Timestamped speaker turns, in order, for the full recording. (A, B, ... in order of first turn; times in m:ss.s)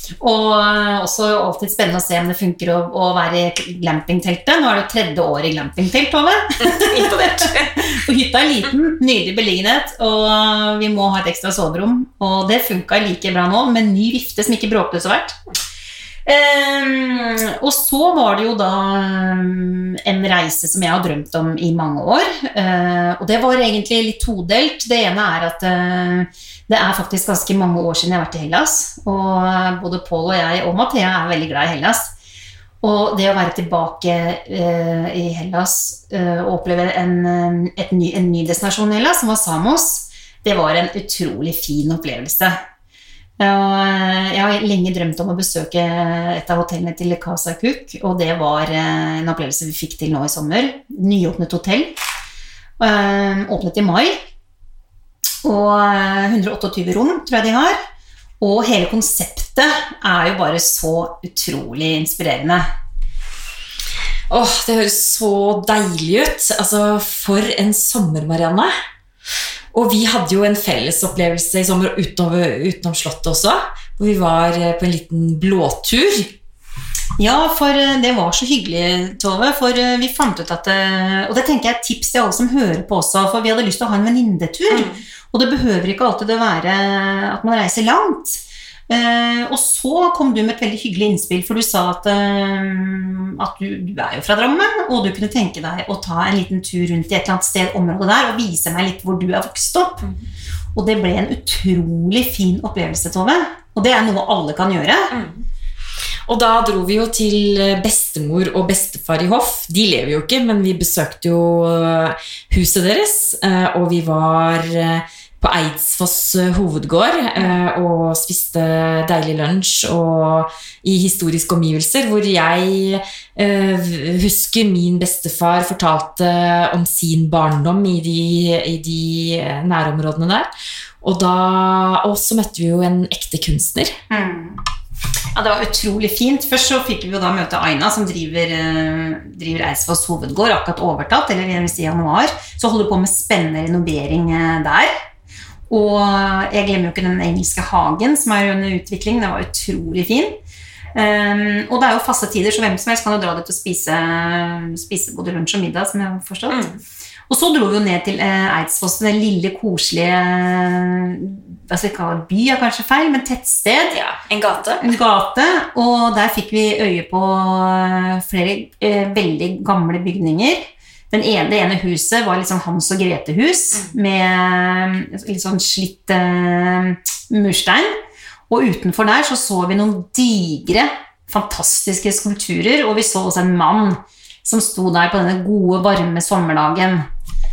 0:00.2-0:15.4 A
0:06.7-0:07.8 B
0:16.2-0:32.1 A
0:32.8-0:42.6 A
0:43.4-0:51.9 A
0:52.8-0:54.1 A
0:55.4-0:57.8 A
0:58.4-1:02.6 A
1:04.3-1:08.7 B
1:09.7-1:16.3 B
1:17.2-1:40.0 A
1:24.7-1:25.0 B
1:40.7-1:45.1 A
1:45.1-1:45.4 B
1:46.3-2:10.5 B
2:11.0-2:13.9 B
2:14.1-2:14.6 A
2:15.3-2:24.9 A
2:25.7-2:30.3 A
2:30.9-2:36.6 A
2:36.5-2:36.8 B
2:37.3-2:44.0 A
2:43.9-2:44.9 B
2:44.8-2:57.9 A
2:58.5-3:07.0 A